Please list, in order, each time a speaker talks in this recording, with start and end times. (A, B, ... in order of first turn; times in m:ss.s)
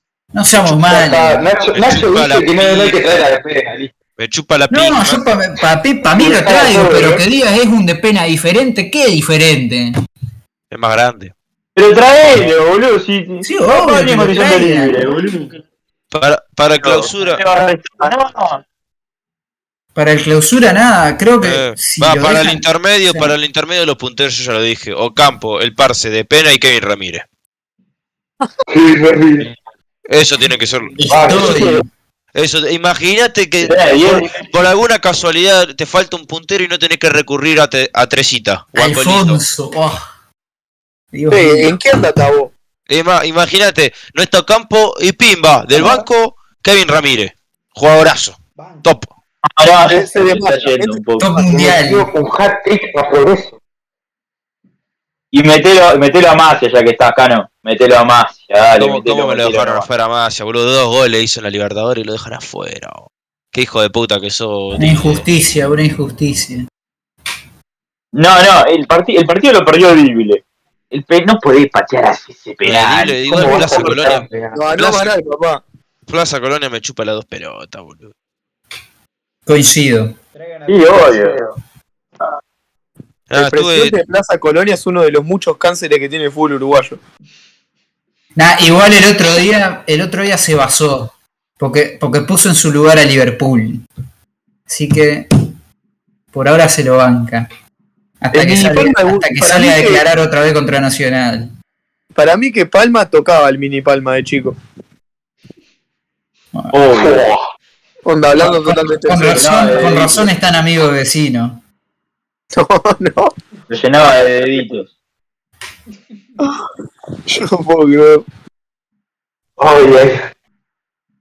0:00.3-0:01.5 A
0:00.7-0:03.9 B
0:01.6-0:03.3 C
0:04.2-0:05.2 C
0:04.7-0:09.9 A
0:06.1-0:07.2 B
0:10.7-0:11.3 C
0:11.8-0:15.5 D
0:13.4-0:15.1 A
0:16.1-0:17.4 C
0:16.8-0:18.6 D
0:20.0-0:23.4 A
0:21.4-0:27.2 C
0:28.7-0:29.5 B
0:30.1-0:31.6 C
0:31.0-0:31.9 A
0:31.1-0:31.8 B
0:32.4-0:39.4 C
0:33.6-0:34.4 D
0:38.8-0:40.0 A
0:41.1-0:42.0 A
0:41.3-0:42.5 E
0:42.9-0:49.1 C
0:48.6-0:49.0 F
0:49.6-0:51.4 D
0:49.8-0:51.8 E
0:51.2-0:52.1 A
0:51.7-0:53.6 B
0:55.3-0:59.9 D
0:58.8-1:05.2 C
1:04.8-1:06.7 A
1:08.1-1:13.9 D
1:12.6-1:15.2 C
1:13.3-1:14.6 B
1:14.5-1:15.6 E
1:16.1-1:18.1 C
1:19.5-1:20.2 A
1:20.3-1:21.4 F
1:20.7-1:21.4 D
1:23.3-1:24.0 C
1:23.3-1:27.0 E
1:28.4-1:33.9 A
1:34.7-1:35.3 A
1:36.3-1:37.5 A
1:38.2-1:41.5 A
1:38.3-1:40.1 E
1:42.2-1:44.6 E
1:46.5-1:46.8 A
1:46.7-1:47.3 D
1:46.9-1:47.5 B
1:48.0-1:49.5 E
1:48.4-1:51.6 A
1:49.3-1:50.3 D
1:52.5-1:53.3 E
1:53.6-1:53.8 F
1:53.7-1:54.9 D
1:55.9-1:56.4 F
1:56.4-1:56.7 E
1:57.3-1:58.2 E
1:59.6-2:00.2 B